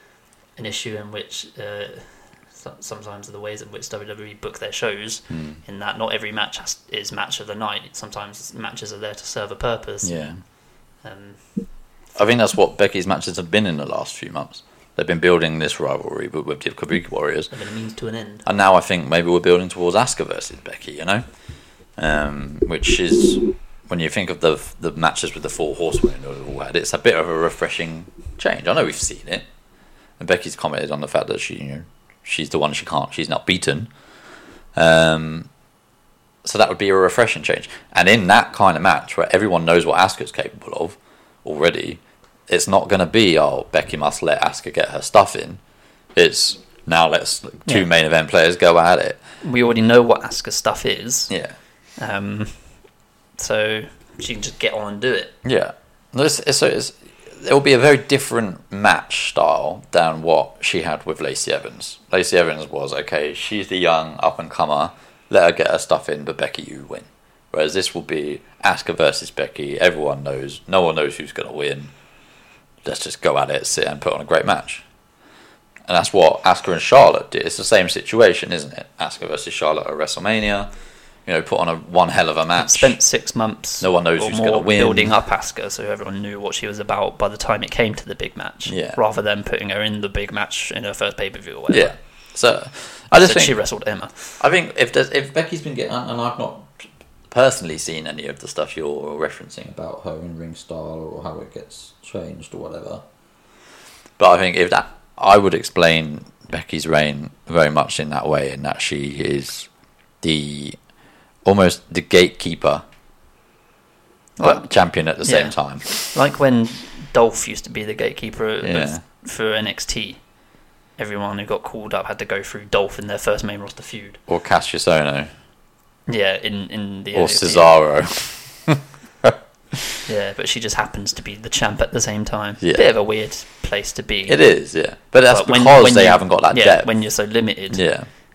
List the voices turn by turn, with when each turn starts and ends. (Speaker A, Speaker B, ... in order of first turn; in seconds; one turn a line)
Speaker A: 0.6-10.2
Speaker B: 5.3-5.6
Speaker B: 10.0-10.4
Speaker A: 11.0-11.4
Speaker B: 12.1-17.5
Speaker A: 17.5-18.4
Speaker B: 18.4-21.2
Speaker B: 22.0-29.4
Speaker B: 30.2-33.9
Speaker B: 34.7-35.5
Speaker B: 36.4-45.6
Speaker B: 46.1-49.2
Speaker A: 49.4-51.3
Speaker B: 51.3-51.5
Speaker A: 52.0-52.8
Speaker A: 53.4-55.3
Speaker B: 55.4-71.9
Speaker B: 72.8-74.8
Speaker B: 75.9-80.7
Speaker B: 81.2-83.0
Speaker A: 82.5-91.9
Speaker B: 83.8-85.2
Speaker B: 88.7-89.0
Speaker B: 91.7-93.5
Speaker A: 93.2-94.4
Speaker B: 94.4-103.0
Speaker B: 104.2-109.7
Speaker B: 110.2-110.8
Speaker B: 111.4-112.8
Speaker A: 114.4-114.7
Speaker B: 114.4-116.1
Speaker A: 115.2-120.2
Speaker B: 118.6-119.0
Speaker A: 121.0-124.2
Speaker B: 124.3-125.3
Speaker A: 126.1-127.7
Speaker B: 127.1-129.3
Speaker A: 130.0-134.4
Speaker B: 134.2-136.9
Speaker A: 135.3-137.8
Speaker B: 137.7-138.1